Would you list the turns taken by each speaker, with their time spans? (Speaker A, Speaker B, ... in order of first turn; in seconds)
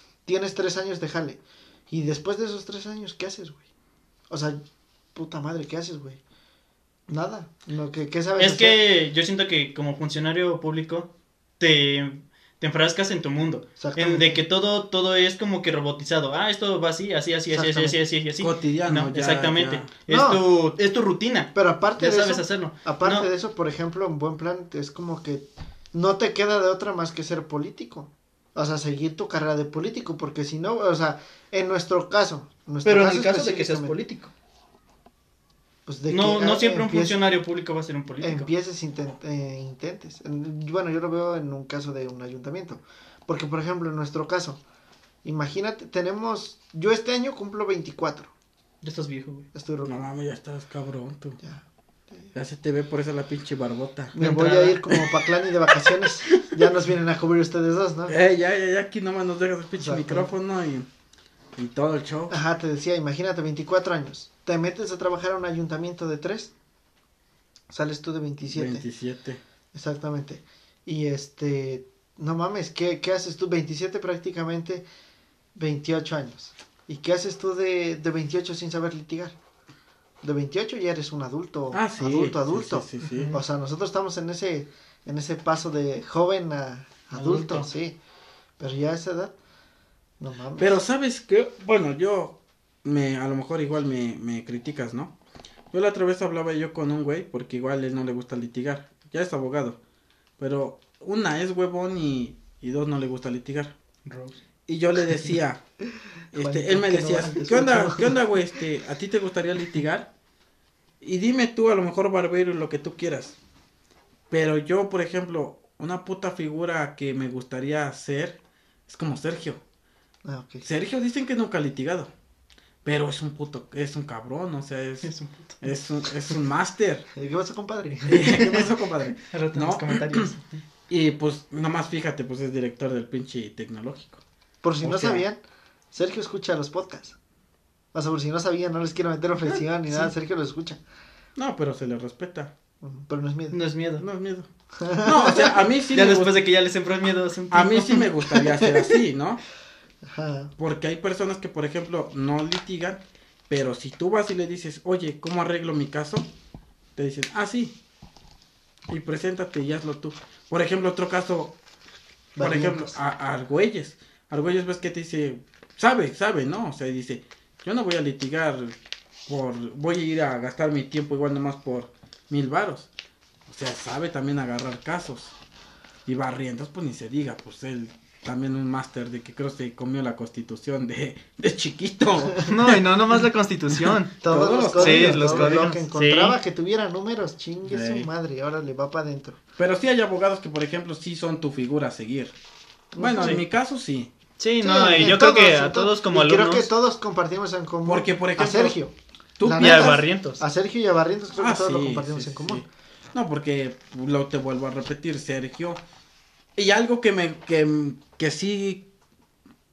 Speaker A: 0.2-3.6, 4.3-4.6, 5.1-6.2, 7.1-8.8, 13.8-14.4, 17.5-18.0, 20.1-20.4, 21.5-34.0, 35.9-37.2, 38.2-44.6, 45.2-48.3, 49.5-50.0, 51.4-52.3, 54.1-58.1, 59.8-60.3, 62.3-66.5, 67.7-68.8, 69.7-74.8, 75.5-79.3, 80.2-88.0, 88.6-89.3, 90.2-90.8, 106.3-108.2, 120.2-120.6, 127.2-128.5, 134.6-135.4, 135.9-137.2, 137.9-140.8, 142.8-143.6, 144.8-145.5, 148.3-148.9, 150.1-150.5, 162.3-163.0, 184.2-189.4, 192.9-193.4, 194.6-202.7
Speaker B: 8.4-23.3, 32.8-34.3, 36.1-38.5, 48.8-49.5, 54.2-54.8, 87.1-87.7, 104.0-104.4, 125.0-125.5, 129.3-130.4, 139.4-140.1, 143.5-144.0, 145.9-148.1, 182.5-184.1, 184.8-186.4, 193.2-193.4, 194.4-196.7, 199.5-200.4
Speaker C: 18.4-19.9, 49.8-51.4, 52.3-54.2, 58.1-60.9, 61.5-62.4, 68.5-69.4, 81.7-83.3, 90.6-95.1, 95.7-99.8, 100.4-103.7, 104.7-105.6, 106.3-110.1, 111.0-113.3, 114.3-119.6, 120.6-122.1, 122.8-127.0, 128.0-130.3, 130.9-134.2, 134.8-135.2, 141.3-142.5, 144.0-144.5, 145.0-146.4, 147.5-149.4, 150.6-156.2, 156.9-157.7, 158.9-161.5, 162.4-172.9, 173.5-175.3, 176.1-182.5, 184.3-185.6, 187.7-188.1, 189.6-192.3, 193.0-194.1, 197.8-198.8, 199.4-200.0, 201.3-205.8, 206.6-208.8